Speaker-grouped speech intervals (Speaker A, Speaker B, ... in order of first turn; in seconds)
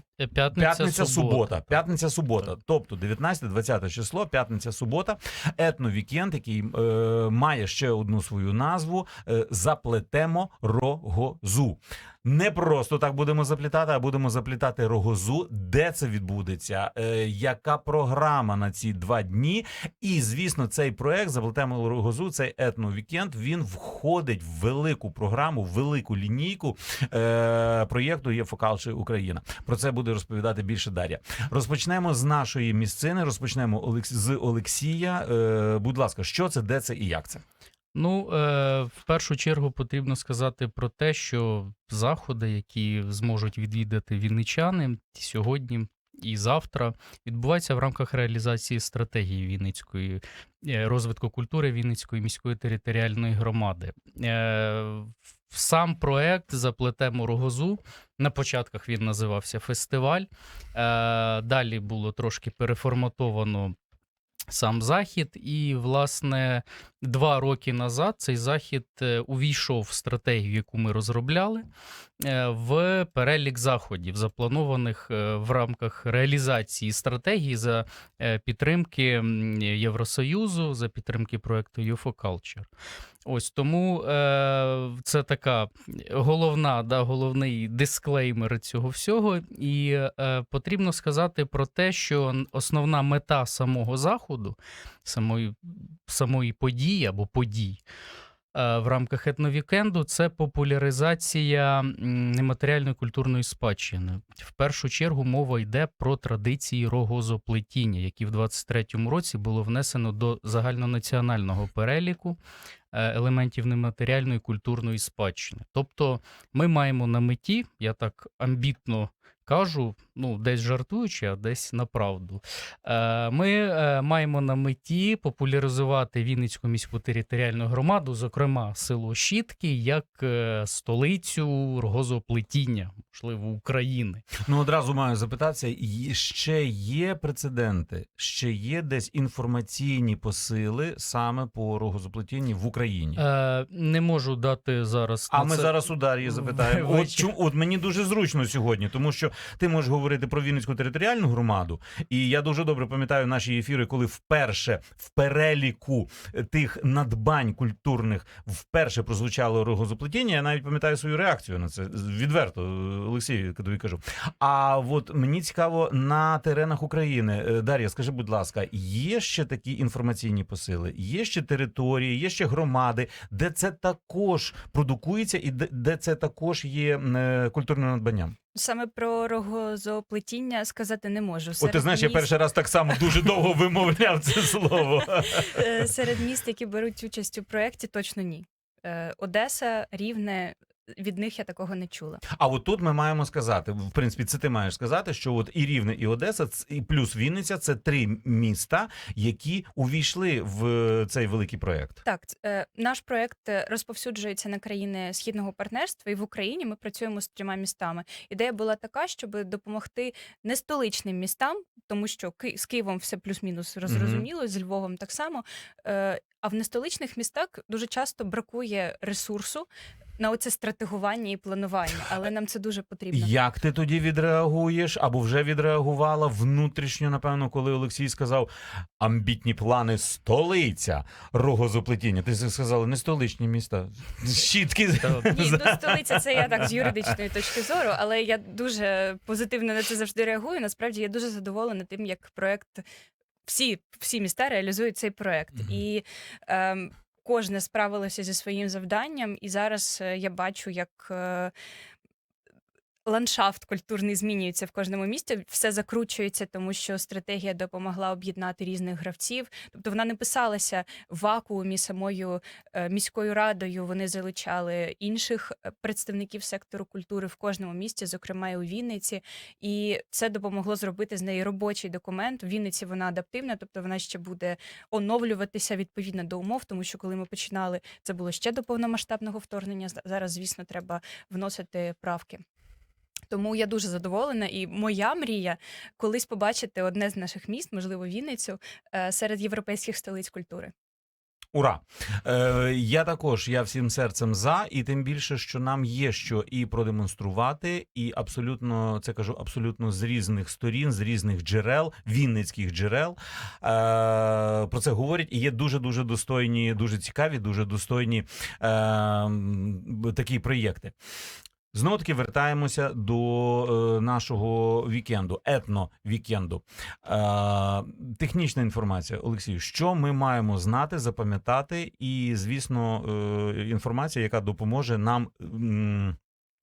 Speaker A: 0.2-1.8, 37.9-63.8, 64.5-71.7, 72.2-82.7, 83.2-97.8, 98.5-112.4, 112.9-134.2, 143.2-147.3
Speaker B: 0.5-37.4, 134.4-143.2, 145.3-178.3, 181.6-185.6, 192.3-202.0, 213.9-214.3, 223.1-236.9, 291.5-310.9, 311.7-326.2
Speaker C: 178.6-182.3, 185.4-192.2, 202.1-219.7, 220.2-223.3, 235.2-242.8, 243.4-251.5, 253.1-282.4, 283.3-290.7